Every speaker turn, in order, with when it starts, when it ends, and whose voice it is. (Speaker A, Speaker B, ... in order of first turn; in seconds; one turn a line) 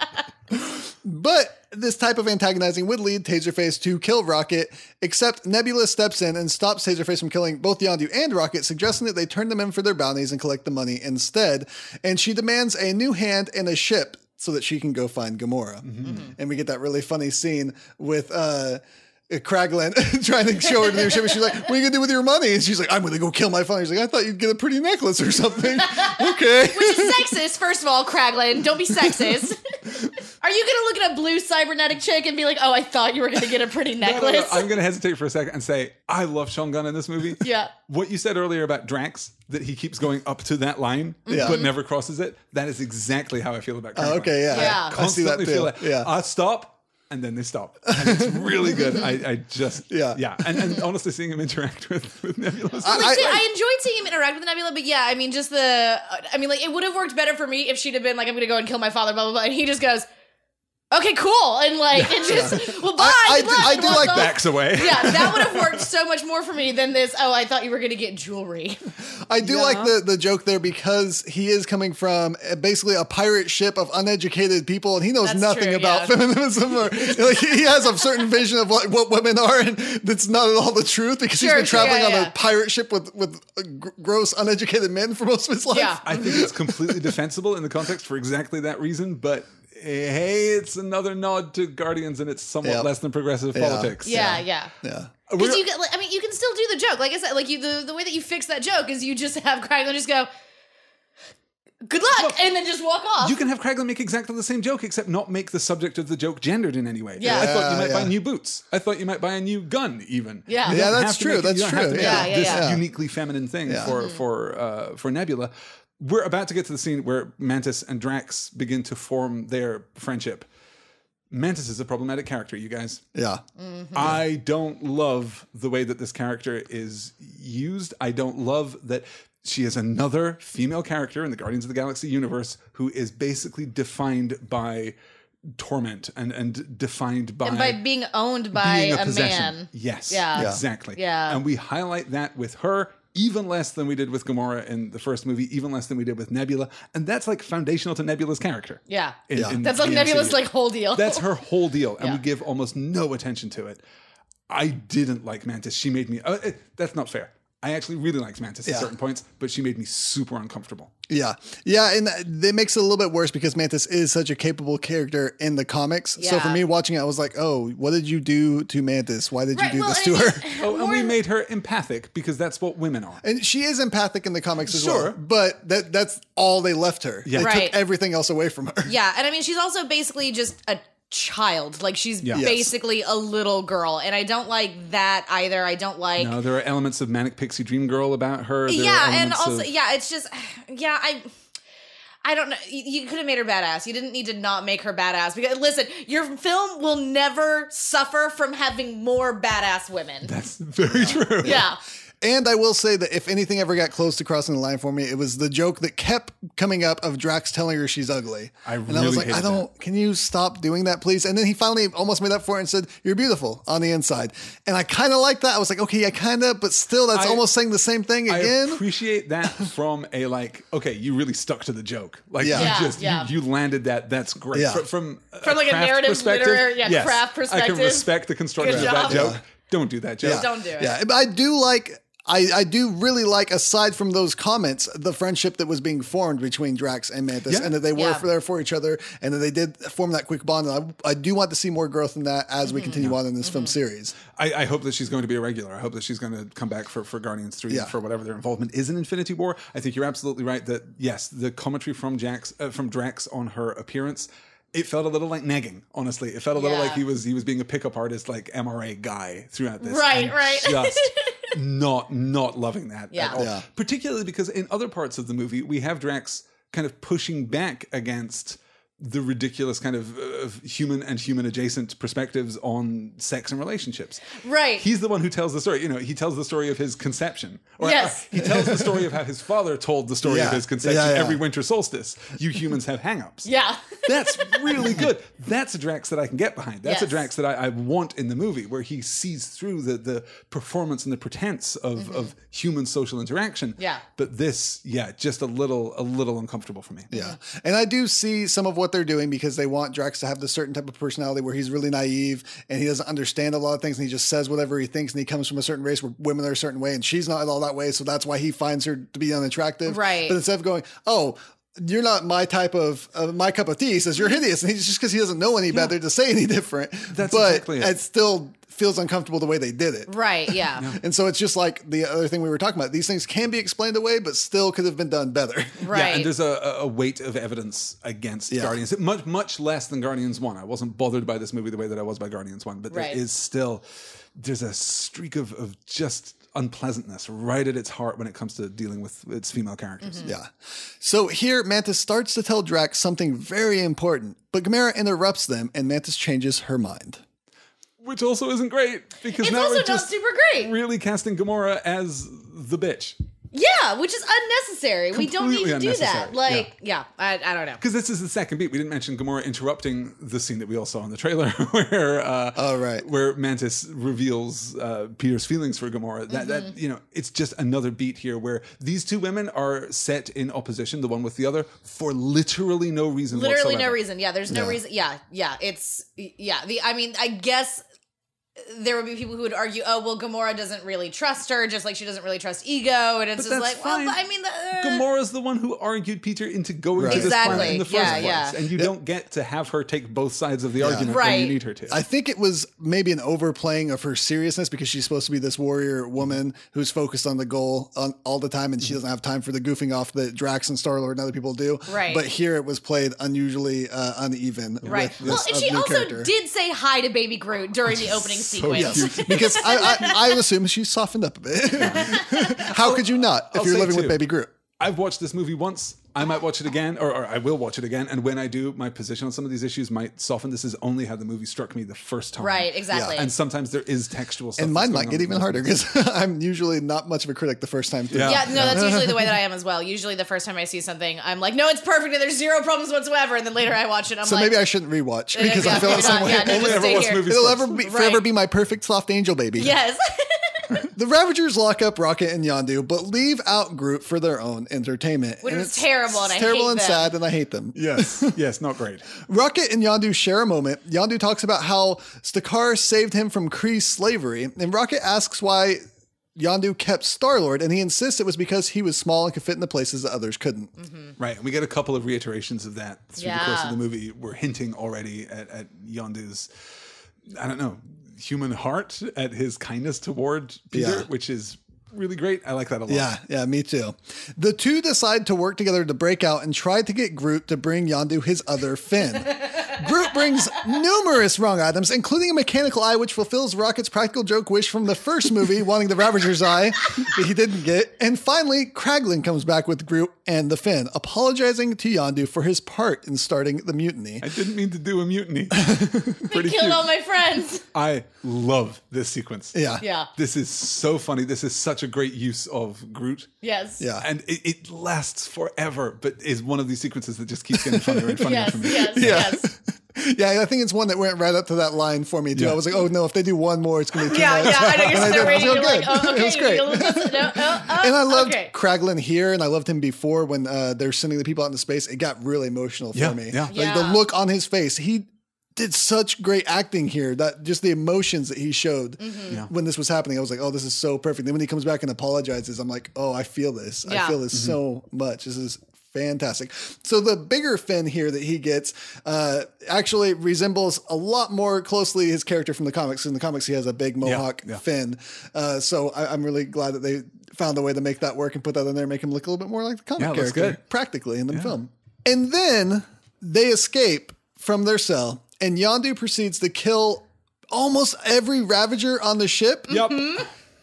Speaker A: 0.5-27.3
Speaker B: 15.8-16.2
Speaker C: 16.0-16.3
Speaker C: 20.9-21.2
Speaker C: 25.9-34.6
Speaker B: 34.0-53.4
Speaker C: 37.4-37.7
Speaker C: 41.2-41.7
Speaker A: 41.3-41.6
Speaker A: 44.0-46.1
Speaker C: 44.5-44.9
Speaker A: 47.9-49.0
Speaker A: 49.9-50.8
Speaker C: 52.8-60.0
Speaker A: 52.8-53.4
Speaker C: 60.9-68.9
Speaker B: 62.0-62.5
Speaker A: 62.2-64.4
Speaker B: 63.6-65.8
Speaker A: 69.2-87.2
Speaker C: 69.4-69.9
Speaker C: 75.2-76.1
Speaker C: 81.4-82.3
Speaker C: 85.7-86.4
Speaker B: 86.0-94.4
Speaker A: 92.6-92.9
Speaker A: 93.5-95.1
Speaker C: 94.0-94.7
Speaker B: 95.3-95.6
Speaker C: 95.4-100.3
Speaker C: 101.8-103.4
Speaker B: 103.2-120.5
Speaker C: 107.2-107.5
Speaker A: 107.2-108.1
Speaker C: 110.5-110.8
Speaker A: 110.7-112.8
Speaker C: 111.9-112.7
Speaker A: 113.7-113.9
Speaker C: 113.9-114.2
Speaker B: 121.3-123.0
Speaker A: 123.1-123.4
Speaker C: 123.6-124.0
Speaker B: 123.9-137.8
Speaker A: 123.9-124.2
Speaker C: 137.4-141.4
Speaker B: 138.5-153.8
Speaker A: 140.3-140.6
Speaker C: 148.9-151.2
Speaker A: 149.3-150.0
Speaker B: 154.5-160.9
Speaker A: 158.6-158.9
Speaker A: 161.1-170.4
Speaker C: 166.2-166.6
Speaker C: 169.5-171.1
Speaker B: 170.6-173.2
Speaker A: 173.2-178.9
Speaker B: 174.7-175.2
Speaker B: 177.2-177.5
Speaker C: 177.4-177.8
Speaker C: 178.8-186.3
Speaker A: 182.3-182.7
Speaker B: 186.2-189.7
Speaker C: 188.7-191.3
Speaker C: 192.2-200.3
Speaker B: 200.2-201.7
Speaker A: 200.9-201.7
Speaker C: 201.4-201.8
Speaker A: 202.2-218.8
Speaker B: 208.7-209.6
Speaker B: 217.1-217.4
Speaker B: 218.3-230.5
Speaker A: 222.4-222.8
Speaker C: 222.5-223.3
Speaker A: 224.5-224.8
Speaker C: 225.4-229.3
Speaker A: 228.6-229.4
Speaker A: 230.2-244.2
Speaker C: 230.3-231.0
Speaker B: 237.5-237.8
Speaker C: 237.9-238.2
Speaker C: 242.6-243.7
Speaker B: 242.9-243.2
Speaker B: 244.3-283.5
Speaker C: 256.5-257.0
Speaker C: 259.8-261.5
Speaker C: 263.1-263.4
Speaker A: 263.3-263.6
Speaker C: 274.4-274.8
Speaker C: 277.8-278.2
Speaker A: 278.4-278.9
Speaker A: 280.2-281.4
Speaker C: 283.4-285.0
Speaker B: 284.1-297.1
Speaker C: 286.8-287.2
Speaker C: 291.9-292.3
Speaker C: 293.8-294.0
Speaker A: 297.1-325.8
Speaker C: 309.9-310.4
Speaker B: 317.1-317.9
Speaker C: 320.1-320.9
Speaker C: 325.8-326.3
Speaker B: 325.9-333.8
Speaker A: 328.5-328.8
Speaker C: 332.9-333.2
Speaker B: 334.3-340.3
Speaker C: 340.0-340.3
Speaker A: 340.2-347.2
Speaker B: 348.0-353.2
Speaker C: 349.3-350.7
Speaker C: 353.5-357.8
Speaker B: 355.1-356.7
Speaker B: 357.8-374.0
Speaker A: 362.5-363.0
Speaker C: 366.3-366.7
Speaker C: 373.3-377.8
Speaker A: 374.5-374.8
Speaker C: 378.6-385.0
Speaker B: 383.4-384.2
Speaker B: 384.8-392.0
Speaker A: 387.0-388.9
Speaker C: 387.1-388.6
Speaker A: 390.8-391.2
Speaker C: 391.1-391.6
Speaker A: 391.9-406.3
Speaker C: 401.9-402.2
Speaker B: 404.8-405.4
Speaker C: 404.8-410.4
Speaker B: 407.9-410.0
Speaker A: 408.7-414.5
Speaker B: 411.7-414.2
Speaker C: 411.9-412.7
Speaker B: 414.8-425.6
Speaker C: 422.4-423.3
Speaker A: 422.9-423.2
Speaker A: 424.6-429.3
Speaker B: 428.1-429.0
Speaker C: 428.2-434.6
Speaker A: 434.2-439.7
Speaker C: 435.3-438.2
Speaker B: 435.5-437.8
Speaker C: 439.6-440.8
Speaker A: 440.9-448.4
Speaker C: 445.4-447.1
Speaker B: 447.8-449.1
Speaker A: 449.2-455.8
Speaker A: 456.4-460.7
Speaker C: 460.8-461.1
Speaker B: 461.2-466.5
Speaker C: 463.2-463.8
Speaker B: 467.3-473.1
Speaker A: 470.7-471.1
Speaker A: 472.9-494.3
Speaker B: 494.2-496.8
Speaker A: 495.5-496.3
Speaker C: 496.3-497.6
Speaker B: 497.7-499.6
Speaker A: 499.5-499.8
Speaker C: 499.8-500.1
Speaker B: 500.1-503.3
Speaker C: 503.4-503.8
Speaker A: 503.8-504.0
Speaker B: 504.0-509.2
Speaker A: 507.6-508.1
Speaker C: 508.2-509.5
Speaker A: 508.9-559.8
Speaker B: 512.3-512.6
Speaker C: 514.1-518.5
Speaker B: 514.2-515.5
Speaker B: 522.9-523.5
Speaker C: 523.5-524.0
Speaker C: 529.0-529.4
Speaker C: 533.9-534.2
Speaker B: 544.0-544.6
Speaker B: 550.0-550.6
Speaker B: 559.7-560.2
Speaker C: 559.7-560.3